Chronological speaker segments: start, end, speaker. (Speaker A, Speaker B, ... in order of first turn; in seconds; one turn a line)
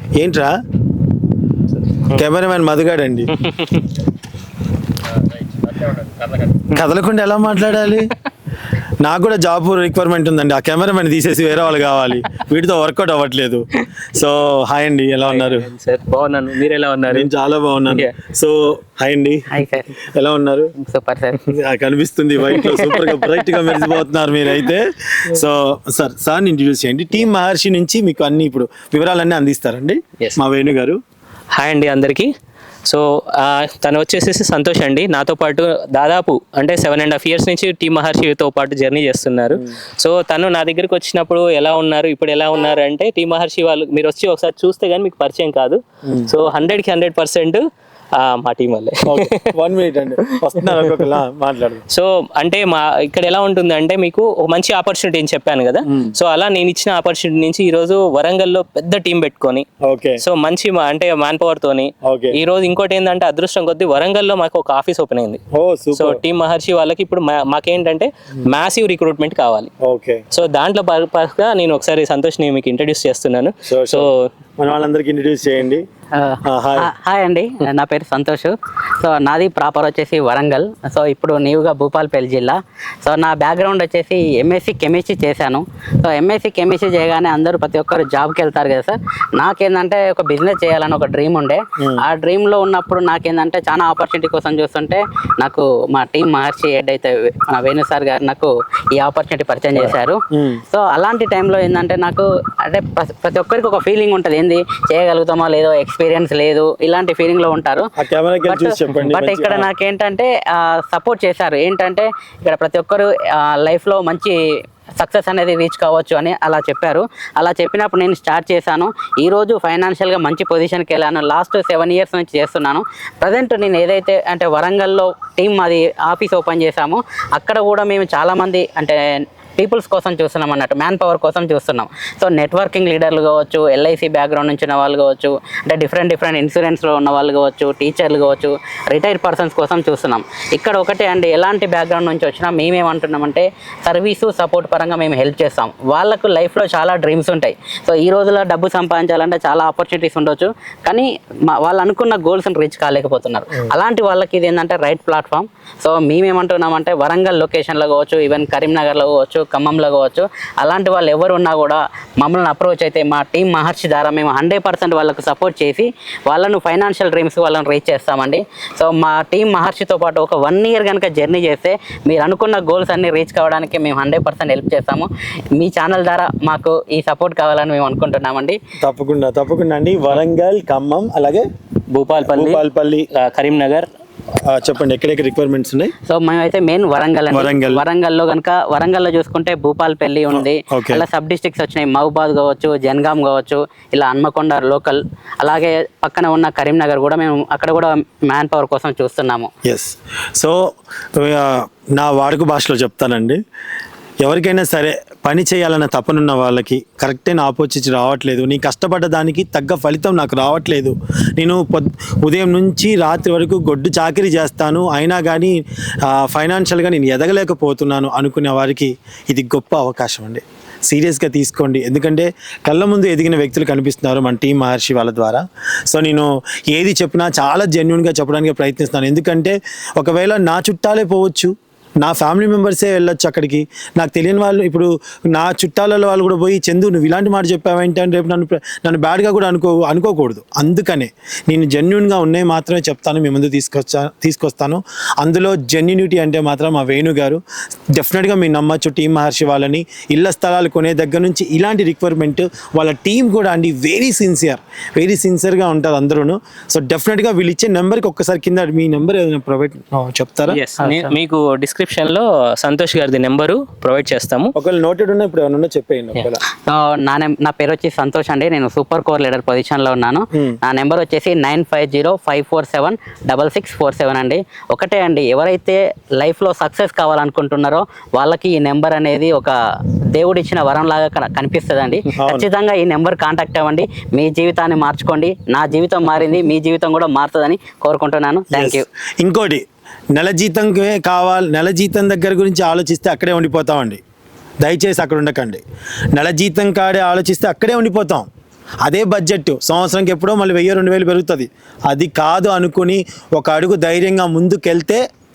Speaker A: 0.2-0.5
Speaker A: 2.1-3.4
Speaker B: 3.4-3.8
Speaker B: 5.7-6.8
Speaker A: 6.7-8.1
Speaker A: 9.0-15.7
Speaker B: 15.2-17.3
Speaker A: 17.1-19.4
Speaker C: 19.5-19.9
Speaker A: 20.0-20.7
Speaker C: 20.8-21.5
Speaker A: 21.4-31.0
Speaker B: 22.5-23.9
Speaker B: 31.5-32.3
Speaker B: 32.9-47.6
Speaker A: 46.0-46.3
Speaker B: 48.1-49.5
Speaker A: 49.0-51.8
Speaker B: 50.6-51.1
Speaker B: 51.9-59.6
Speaker A: 59.8-60.2
Speaker B: 60.2-65.4
Speaker A: 62.0-62.4
Speaker A: 65.5-66.2
Speaker B: 65.9-69.7
Speaker A: 69.8-70.2
Speaker B: 70.3-74.3
Speaker A: 73.7-74.0
Speaker A: 74.6-75.8
Speaker C: 76.1-107.9
Speaker A: 76.5-76.9
Speaker A: 99.8-100.6
Speaker A: 108.0-109.7
Speaker C: 108.4-114.4
Speaker C: 115.0-129.0
Speaker C: 129.6-178.6
Speaker A: 178.8-181.4
Speaker B: 181.9-183.9
Speaker A: 182.2-183.1
Speaker A: 184.4-185.9
Speaker C: 186.1-199.5
Speaker A: 187.3-187.8
Speaker A: 190.3-191.0
Speaker A: 199.6-200.6
Speaker A: 201.2-203.4
Speaker A: 204.2-247.4
Speaker A: 247.9-260.6
Speaker B: 260.5-264.5
Speaker C: 260.8-261.1
Speaker A: 264.5-266.4
Speaker C: 266.6-279.6
Speaker C: 280.1-288.8
Speaker A: 282.2-282.5
Speaker A: 288.5-294.0
Speaker A: 294.6-298.3
Speaker A: 298.8-305.0